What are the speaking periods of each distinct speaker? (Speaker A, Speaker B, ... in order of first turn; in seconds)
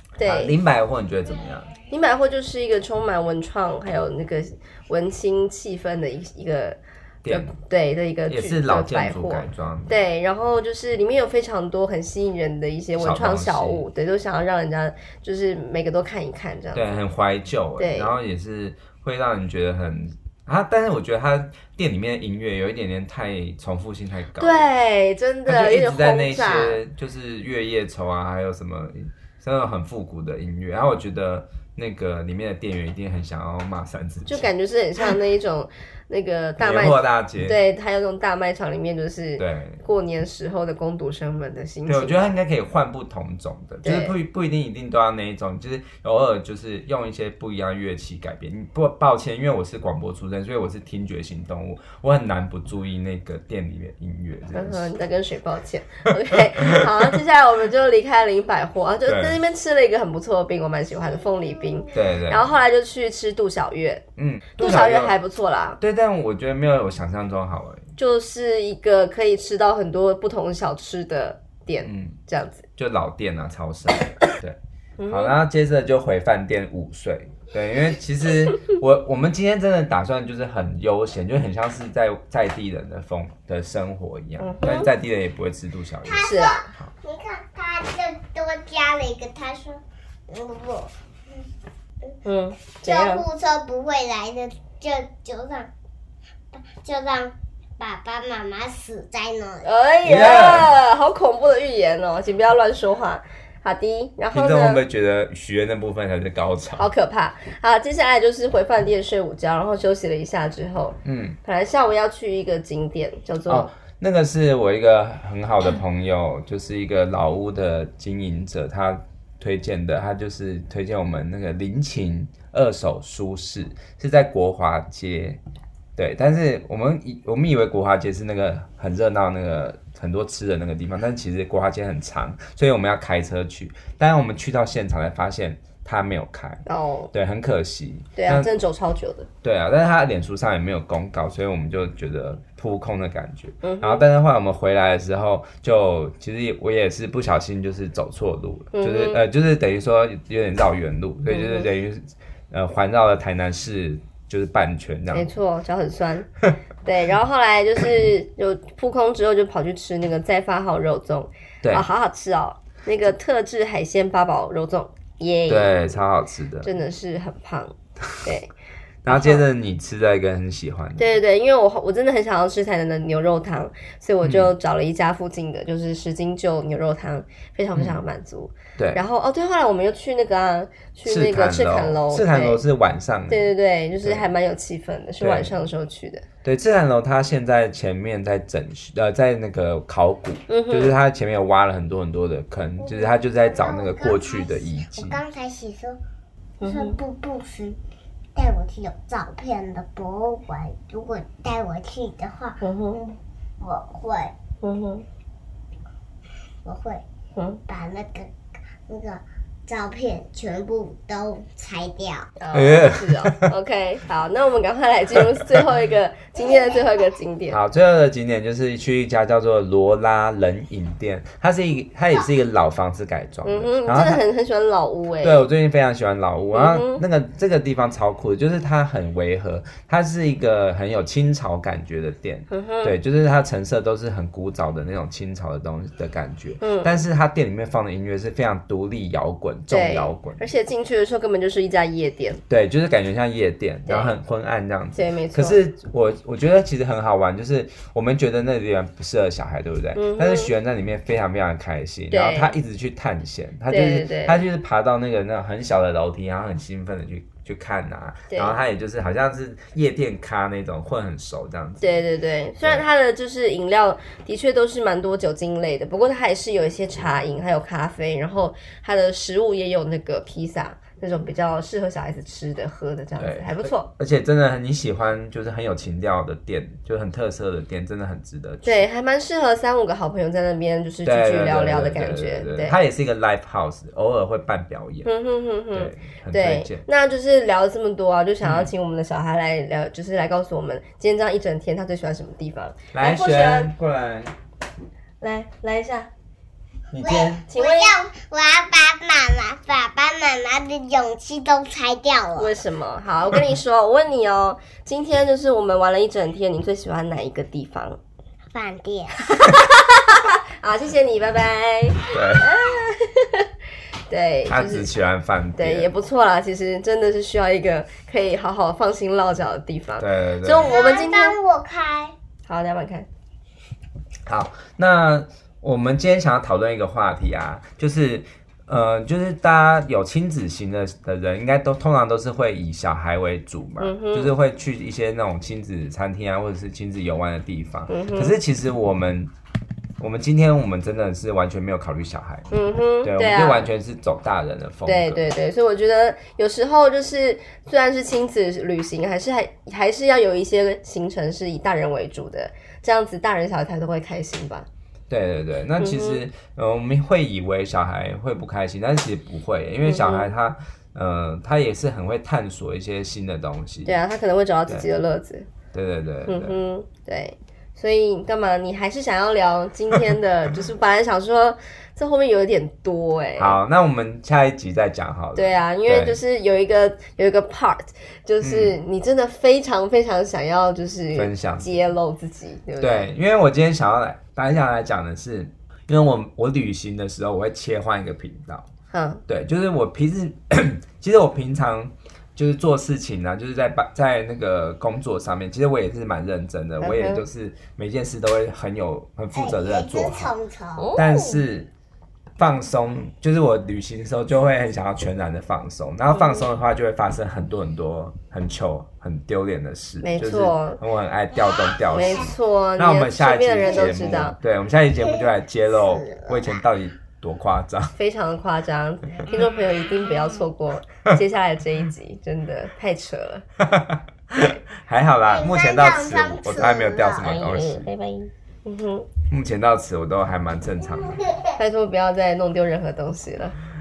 Speaker A: 0.2-0.5, 1.9-17.0, 17.8-18.1, 24.4-26.8, 34.3-42.3, 43.8-44.1, 54.5-64.0, 64.6-65.8, 68.0-72.6, 75.0-75.3, 84.4-84.9, 86.2-86.6, 92.2-93.2, 99.6-104.8, 106.8-113.7, 136.7-137.1, 138.2-139.3, 143.6-144.1, 148.7-149.2, 151.3-151.7, 155.1-156.3, 156.8-166.0, 166.6-168.5, 169.1-169.4, 171.0-182.6, 183.3-186.2, 190.5-191.0, 196.6-197.0, 202.6-203.0, 204.6-205.0, 207.3-207.6, 212.4-217.6, 223.4-225.5, 226.5-227.0, 232.5-232.9, 236.6-237.0, 239.7-242.4, 243.8-244.1, 244.9-245.6, 249.9-250.5, 252.1-252.6, 253.7-254.4, 258.3-258.6, 261.8-273.9, 278.6-282.7, 285.0-293.7, 295.2-296.1, 297.5-298.0, 302.4-308.0, 309.3-313.5, 314.1-314.9, 315.6-321.4, 322.5-323.1, 333.8-334.3, 337.9-338.4, 342.5-343.7, 344.8-354.7, 355.8-356.2, 359.8-360.3, 363.8-365.5, 366.3-373.6, 375.3-383.1, 388.9-389.2, 396.8-397.2, 400.8-401.4, 406.1-406.5, 410.0-410.8, 411.9-414.4, 417.9-423.4, 427.2-429.1, 431.6-433.6
Speaker B: 0.2-1.7, 7.2-7.5, 8.3-9.9, 13.0-13.8, 16.7-24.7, 25.5-34.5, 36.6-37.6, 39.4-39.8, 41.9-54.9, 59.0-59.4, 61.9-62.4, 64.2-65.2, 65.8-67.8, 71.8-72.2, 72.8-86.9, 100.0-100.7, 104.3-106.9, 111.0-111.4, 113.5-125.4, 126.0-138.5, 139.4-155.3, 161.6-161.9, 165.5-166.7, 169.0-171.1, 174.2-174.5, 178.8-179.0, 181.1-183.5, 184.0-184.3, 185.2-185.5, 186.4-195.2, 212.5-213.5, 217.5-224.2, 225.2-240.5, 242.5-261.9, 273.2-278.8, 281.0-285.1, 285.7-286.9, 288.4-288.7, 292.9-294.3, 296.9-297.4, 312.1-312.4, 314.5-315.9, 320.0-320.7, 324.2-339.3, 340.0-342.5, 343.0-345.2, 355.1-364.0, 365.7-366.5, 373.4-376.2, 378.4-378.8, 381.1-381.7, 382.8-388.7, 389.3-400.3, 400.9-401.7, 402.4-417.9, 423.6-427.9, 429.3-431.2
Speaker C: 86.0-91.5, 92.8-95.7, 96.5-99.7, 192.8-196.0, 196.6-197.8, 198.3-204.3, 206.6-207.0, 207.7-208.3, 208.9-212.3, 216.4-216.8, 297.0-302.5, 308.5-309.2, 320.5-322.1, 399.3-400.9, 411.3-412.3, 413.6-413.9, 415.0-416.6, 419.3-420.4, 425.3-427.4, 431.0-431.6